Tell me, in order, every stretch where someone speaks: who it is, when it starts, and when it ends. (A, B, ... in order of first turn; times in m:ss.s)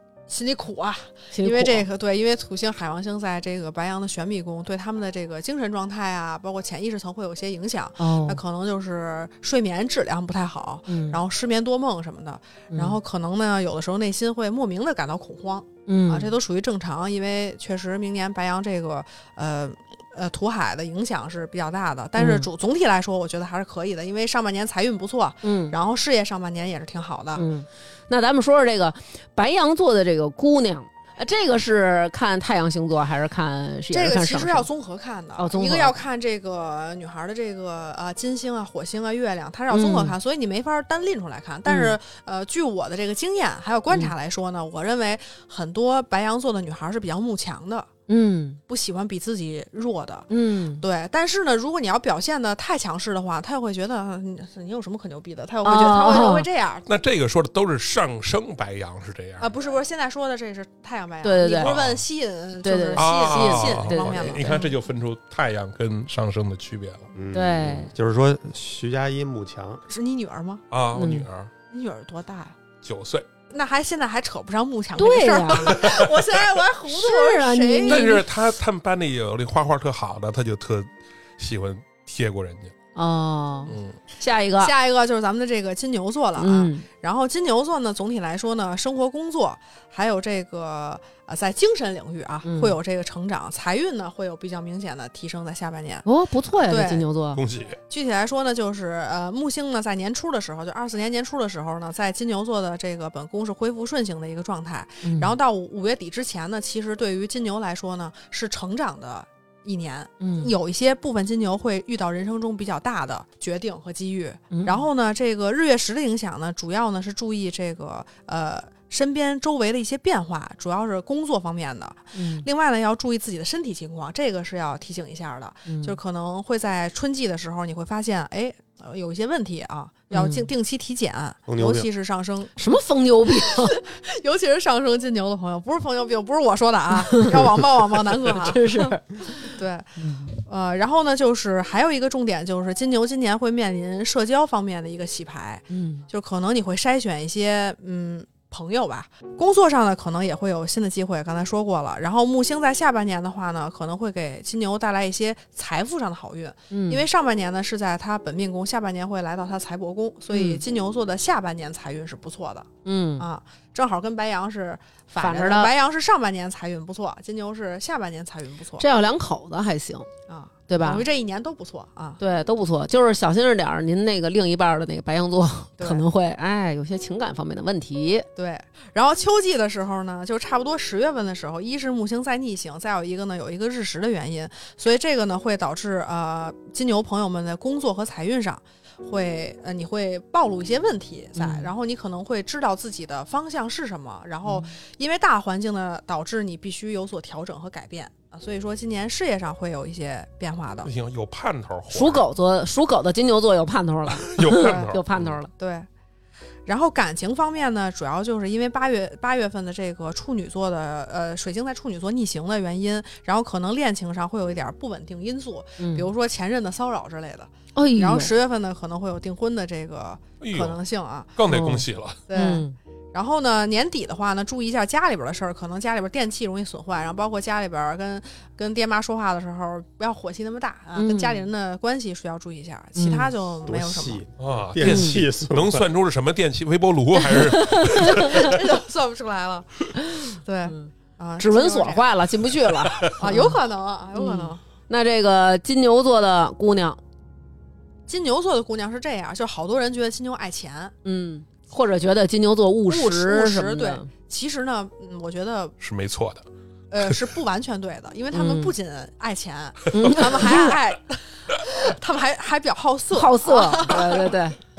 0:00.3-0:27.4 A
0:01.3-0:01.8 B
0:08.0-0:08.4 B
0:10.9-0:11.2 B
0:12.7-0:13.0 B
0:15.8-0:16.3 B
0:22.2-0:22.5 B
0:25.4-0:25.8 B
0:27.4-0:34.7 B
0:33.9-0:47.9 A
0:35.4-0:36.0 B
0:39.7-0:40.2 B
0:41.6-0:42.0 B
0:43.9-0:44.1 B
0:48.1-0:48.6 B
0:48.7-0:56.9 A
0:50.3-0:50.8 B
0:55.6-0:56.5 B
0:56.8-0:59.5 C
0:59.4-1:04.7 A
1:01.2-1:01.8 B
1:01.5-1:02.0 C
1:02.6-1:04.7 B
1:03.0-1:07.1 C
1:07.1-1:09.8 D
1:07.3-1:07.9 B
1:09.9-1:10.6 A
1:10.7-1:11.5 C
1:11.0-1:11.3 B
1:11.7-1:12.6 A
1:12.8-1:13.2 C
1:13.5-1:18.2 A
1:15.0-1:15.9 B
1:16.9-1:18.2 B
1:17.8-1:22.7 C
1:22.9-1:24.7 B
1:23.7-1:24.0 C
1:24.6-1:36.0 A
1:26.4-1:26.8 B
1:32.4-1:32.8 B
1:36.0-1:37.4 B
1:36.6-1:37.0 A
1:37.3-1:37.8 C
1:37.9-2:12.6 A
1:45.0-1:45.4 B
1:50.2-1:50.5 B
1:54.5-1:54.8 B
2:02.1-2:02.4 B
2:05.7-2:06.0 B
2:10.1-2:10.5 B
2:11.5-2:11.9 D
2:12.6-2:13.8 B
2:13.3-2:42.7 A
2:18.2-2:19.2 B
2:20.0-2:20.3 B
2:25.7-2:26.0 B
2:36.7-2:37.0 B
2:40.3-2:40.6 B
2:42.8-2:43.3 B
2:43.2-2:48.8 A
2:45.2-2:45.7 B
2:48.8-2:50.1 B
2:50.3-2:52.2 A
2:50.7-2:51.1 B
2:52.2-2:58.3 B
2:55.8-2:56.0 A
2:58.4-3:20.9 A
3:11.4-3:11.7 B
3:14.4-3:14.7 B
3:20.8-3:22.2 C
3:21.9-3:25.5 B
3:24.3-3:25.3 C
3:24.6-3:24.9 A
3:25.6-3:25.9 A
3:26.6-3:41.3 A
3:35.8-3:36.1 B
3:37.7-3:38.3 B
3:40.4-3:40.8 C
3:41.4-3:42.2 C
3:41.5-3:42.8 B
3:42.3-3:54.2 A
3:51.0-3:51.4 B
3:53.0-3:53.3 B
3:53.6-3:55.8 D
3:54.4-3:58.4 C
3:54.8-3:55.2 B
3:57.2-3:58.5 B
3:58.2-4:02.1 A
4:00.0-4:03.6 B
4:03.0-4:04.6 A
4:04.1-4:07.0 B
4:08.1-4:10.9 A
4:11.0-4:14.1 B
4:12.9-4:15.7 A
4:15.8-4:16.4 C
4:16.9-4:24.4 A
4:18.3-4:18.7 B
4:19.9-4:20.8 B
4:23.1-4:24.6 B